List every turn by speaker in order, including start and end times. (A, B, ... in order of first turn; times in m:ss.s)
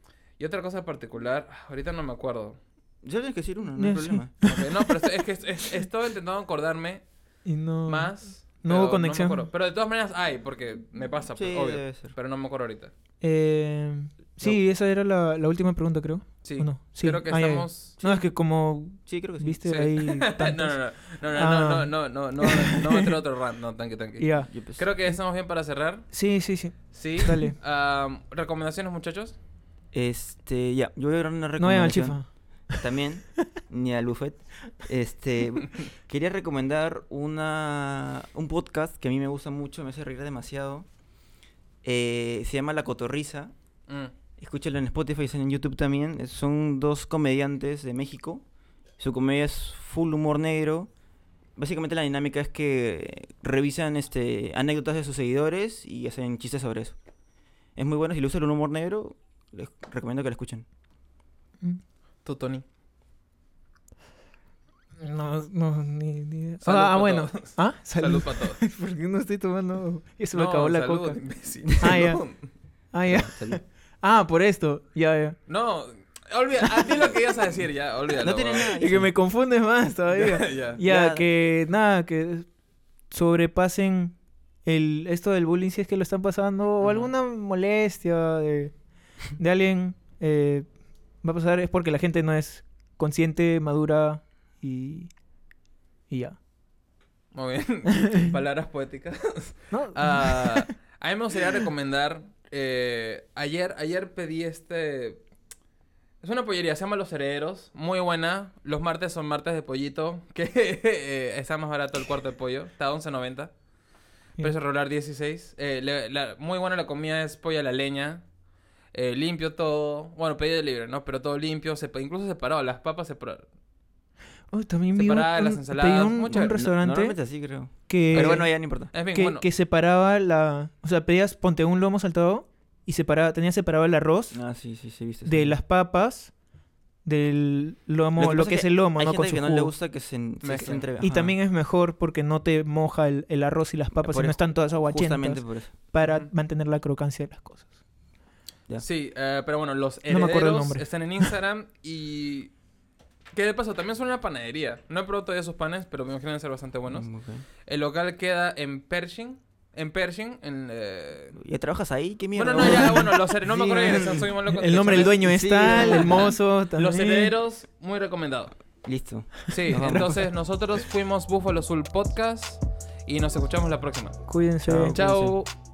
0:00.4-0:02.6 A
0:03.0-0:04.4 B
0:03.8-0:04.7 C
0:04.4-0:07.0 A
0:07.4-0:09.5 C
0:07.9-0:12.9 A
0:11.3-0:12.1 B
0:13.2-0:23.2 C
0:16.4-0:18.0 A
0:19.0-0:19.6 B
0:19.6-0:26.1 A
0:24.2-0:24.5 C
0:24.5-0:24.9 B
0:26.1-0:27.6 C
0:26.9-0:29.4 A
0:29.9-0:40.9 B
0:31.6-0:32.8 C
0:41.8-0:43.5 B
0:43.9-0:44.1 A
0:44.4-0:48.4 B
0:49.0-0:50.9 B
0:51.6-0:57.0 B
0:57.8-1:00.6 B
1:02.2-1:02.6 A
1:05.0-1:11.2 C
1:06.6-1:08.6 A
1:10.3-1:12.4 A
1:11.8-1:12.3 C
1:12.9-1:15.4 C
1:13.1-1:13.6 B
1:15.5-1:18.7 A
1:16.7-1:17.1 C
1:18.2-1:19.1 B
1:18.8-1:22.5 C
1:20.1-1:20.8 A
1:20.8-1:21.3 B
1:23.1-1:28.7 C
1:26.8-1:27.1 A
1:29.4-1:30.7 C
1:31.2-1:35.1 C
1:36.1-1:36.4 C
1:37.3-1:45.2 A
1:39.7-1:40.7 C
1:46.2-1:53.5 A
1:54.4-1:58.2 A
1:58.9-2:03.4 A
2:04.5-2:07.2 C
2:05.0-2:06.6 A
2:06.3-2:08.9 B
2:07.9-2:14.4 C
2:08.1-2:09.4 A
2:14.3-2:15.6 B
2:15.2-2:16.3 C
2:17.0-2:19.7 C
2:18.2-2:21.3 B
2:20.4-2:20.8 A
2:20.5-2:27.7 C
2:23.9-2:25.7 B
2:26.0-2:26.3 A
2:28.8-2:32.5 A
2:30.1-2:31.3 C
2:33.3-2:37.1 A
2:36.9-2:37.4 B
2:37.6-2:41.4 A
2:41.4-2:44.3 B
2:42.3-2:48.5 A
2:42.6-2:47.3 C
2:44.9-2:46.3 B
2:48.8-2:50.3 B
2:49.5-2:54.2 A
2:54.3-2:55.3 C
2:54.6-2:55.3 B
2:54.9-2:55.5 A